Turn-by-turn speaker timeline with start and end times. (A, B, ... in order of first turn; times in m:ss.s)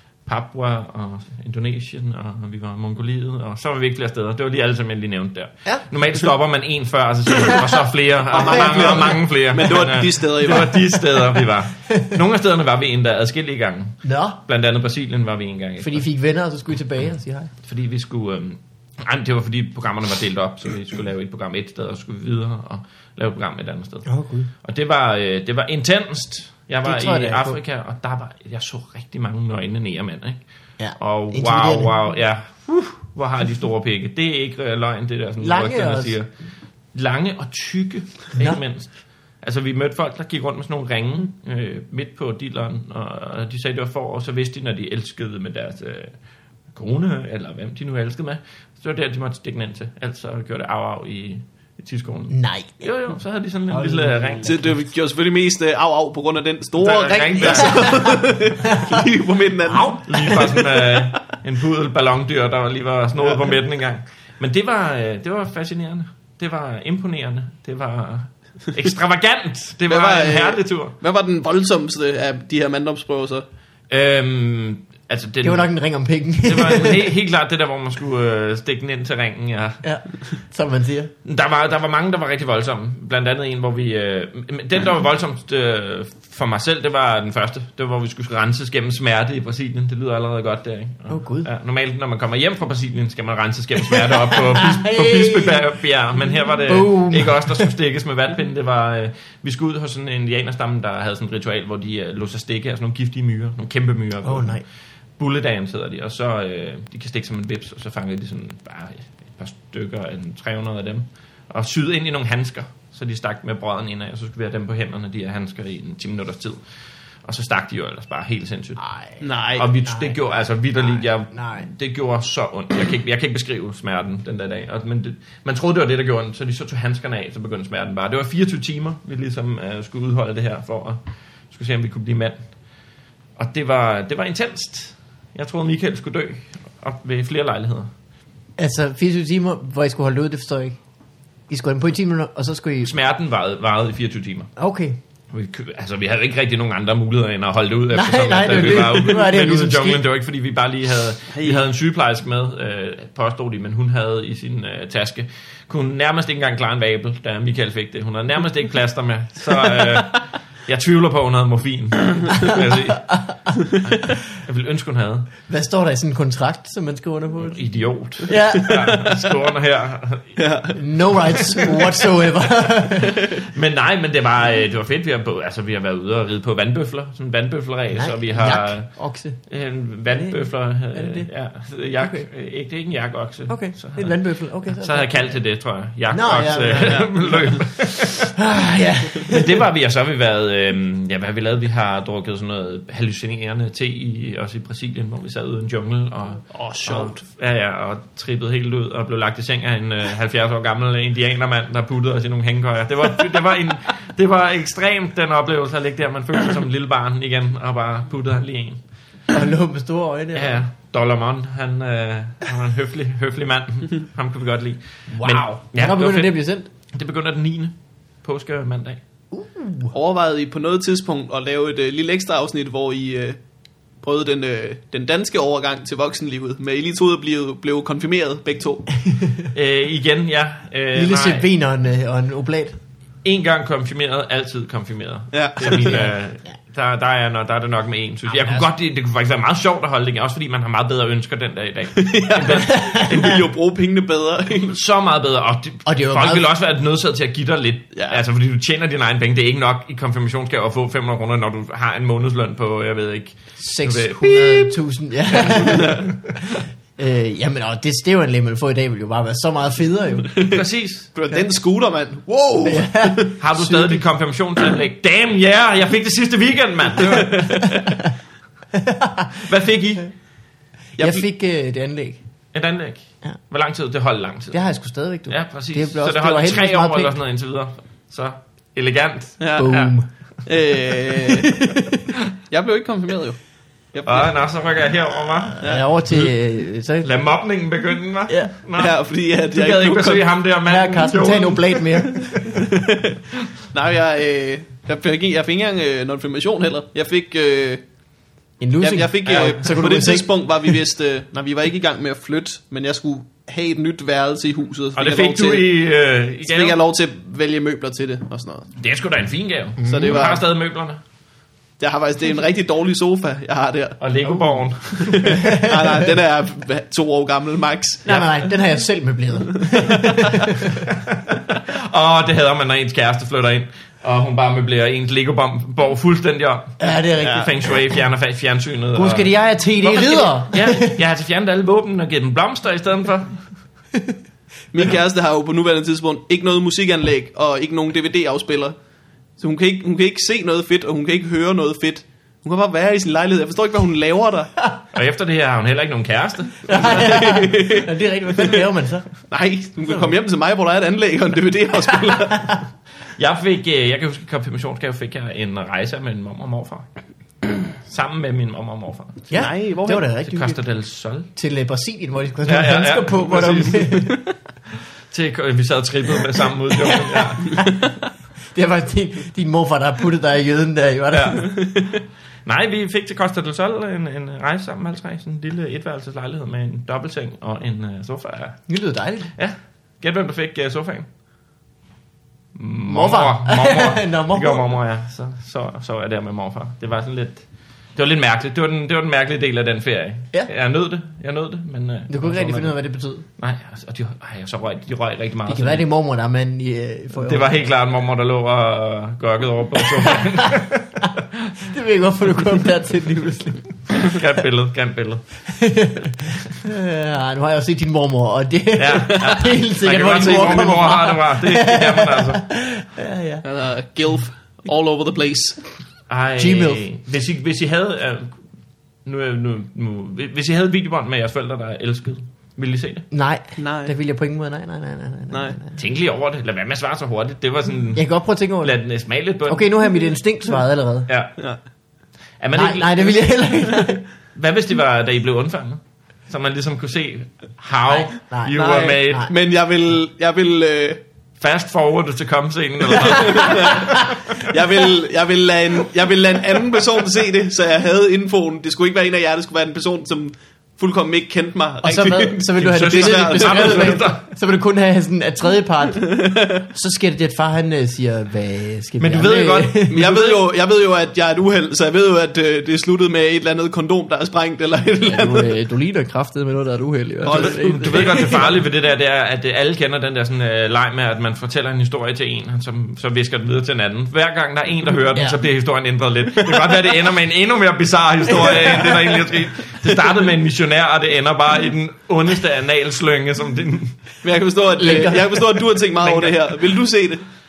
0:00.2-0:16.0 A
0:08.3-0:10.8 B
0:08.4-0:09.0 C
0:14.0-0:14.4 C
0:15.8-0:17.5 C
0:17.6-0:24.1 A
0:24.0-0:24.5 C
0:24.6-0:30.4 A
0:26.8-0:27.6 C
0:30.8-0:31.9 C
0:31.0-0:36.3 A
0:35.4-0:36.2 C
0:36.9-0:46.1 A
0:46.7-0:54.7 A
0:52.3-0:52.8 C
0:53.7-0:54.8 C
0:54.4-1:01.0 B
0:56.8-0:58.2 A
0:58.6-0:59.0 C
0:59.7-1:10.9 A
1:09.9-1:13.4 B
1:13.9-1:15.7 A
1:15.4-1:17.1 C
1:16.4-1:19.8 A
1:19.8-1:21.1 C
1:21.2-1:44.6 A
1:31.1-1:31.5 C
1:34.2-1:35.6 C
1:36.7-1:37.7 C
1:44.2-1:44.6 C
1:45.2-1:56.6 A
1:57.2-1:58.8 A
1:58.8-1:59.2 C
1:59.2-1:59.7 B
1:59.5-2:12.5 A
1:59.8-2:01.7 C
2:13.4-2:17.9 A
2:18.6-2:20.8 C
2:21.5-2:22.9 C
2:22.8-2:24.5 A
2:24.6-2:25.0 C
2:25.3-2:43.1 A
2:27.9-2:30.0 C
2:31.3-2:31.6 B
2:42.4-2:43.6 C
2:43.8-2:45.3 A
2:45.5-2:47.6 C
2:47.4-2:50.3 A
2:48.2-2:48.8 C
2:48.3-2:49.3 B
2:50.4-2:51.9 B
2:50.7-2:53.2 C
2:53.5-2:58.9 A
2:57.9-2:59.4 C
2:59.5-3:08.3 A
3:00.1-3:00.4 C
3:00.9-3:01.3 C
3:02.0-3:02.3 C
3:03.5-3:05.4 C
3:06.1-3:07.4 C
3:06.8-3:07.5 B
3:08.2-3:09.6 C
3:09.2-3:28.8 A
3:16.5-3:17.2 B
3:29.3-3:30.6 C
3:30.3-3:36.3 A
3:35.1-3:36.7 C
3:36.9-3:39.0 A
3:39.3-3:39.9 C
3:39.9-3:43.4 B
3:44.0-3:49.0 B
3:49.5-3:51.5 A
3:50.9-3:52.8 C
3:53.2-4:03.4 A
3:55.3-3:56.0 B
3:55.7-3:56.1 C
3:58.3-3:58.6 C
4:02.0-4:04.8 B
4:02.7-4:03.1 C
4:04.6-4:14.8 A
4:05.8-4:06.5 C
4:07.9-4:08.2 B
4:13.6-4:16.4 C
4:15.3-4:16.4 A
4:17.0-4:20.3 C
4:20.3-4:23.4 B
4:20.4-4:21.1 A
4:22.6-4:24.0 C
4:23.4-4:27.8 A
4:27.0-4:27.8 B
4:28.7-4:29.4 C
4:29.4-4:30.0 A
4:31.0-4:32.2 C
4:31.0-4:31.2 B
4:32.5-4:34.6 A
4:34.5-4:37.1 C
4:35.3-4:39.9 A
4:39.4-4:39.8 B
4:39.6-4:40.1 C
4:40.4-4:41.6 B
4:41.3-4:42.0 C
4:42.5-4:43.4 B
4:43.9-4:44.3 B
4:44.0-4:45.6 A
4:45.6-4:47.1 C
4:47.0-4:49.0 A
4:48.3-4:48.5 C
4:48.8-4:50.2 B
4:49.5-4:52.2 A
4:50.6-4:52.6 C
4:52.5-4:53.2 B
4:53.7-4:57.8 B
4:58.6-5:00.7 C
4:58.8-5:05.7 B
4:59.2-4:59.6 A
5:05.0-5:06.8 A
5:06.4-5:08.7 B
5:08.8-5:11.0 A
5:09.8-5:10.3 C
5:09.8-5:10.4 B
5:11.8-5:18.3 B
5:14.0-5:15.4 A
5:15.3-5:16.0 C
5:18.0-5:20.9 C
5:20.9-5:33.4 A
5:26.8-5:27.7 C
5:28.9-5:31.0 C
5:34.7-5:38.8 B
5:39.4-5:44.5 B
5:44.9-5:47.0 A
5:46.6-5:49.1 C
5:46.9-5:47.9 B
5:49.3-5:52.6 B
5:52.3-5:52.6 C
5:53.2-5:56.9 A
5:57.8-5:59.3 A
5:59.3-6:00.6 C
5:59.3-6:00.0 B
6:00.2-6:01.3 A
6:01.3-6:04.2 C
6:02.4-6:04.1 A
6:05.1-6:07.6 A
6:06.8-6:07.9 C
6:08.5-6:11.5 C
6:11.1-6:11.6 A
6:12.4-6:18.6 A
6:18.7-6:19.3 C
6:19.4-6:21.1 A
6:22.5-6:27.4 A
6:22.8-6:24.7 C
6:28.0-6:32.8 A
6:32.1-6:33.2 C
6:33.4-6:35.8 A
6:35.5-6:37.6 C
6:37.1-6:41.5 A
6:39.8-6:41.0 C
6:41.6-6:44.1 C
6:43.9-6:45.4 A
6:45.5-6:53.4 C
6:48.8-6:52.4 A
6:50.2-6:50.6 B
6:53.4-6:55.6 B
6:56.1-6:58.4 A
6:56.4-6:56.8 C
6:59.0-7:03.1 A
7:03.1-7:05.8 C
7:03.6-7:03.9 B
7:05.8-7:09.7 A
7:07.9-7:08.8 C
7:09.4-7:11.1 C
7:11.1-7:11.3 A
7:12.4-7:13.2 A
7:12.5-7:14.0 C
7:14.3-7:19.3 A
7:17.9-7:19.3 C
7:18.5-7:21.0 B
7:21.4-7:24.0 A
7:23.0-7:34.0 B
7:31.8-7:40.0 C
7:32.6-7:34.2 A
7:36.0-7:36.6 B
7:39.0-7:40.4 A
7:39.9-7:45.5 B
7:45.0-7:48.5 C
7:47.2-7:48.5 B
7:47.3-8:04.0 A
8:04.2-8:07.2 B
8:04.8-8:05.4 C
8:06.0-8:06.4 A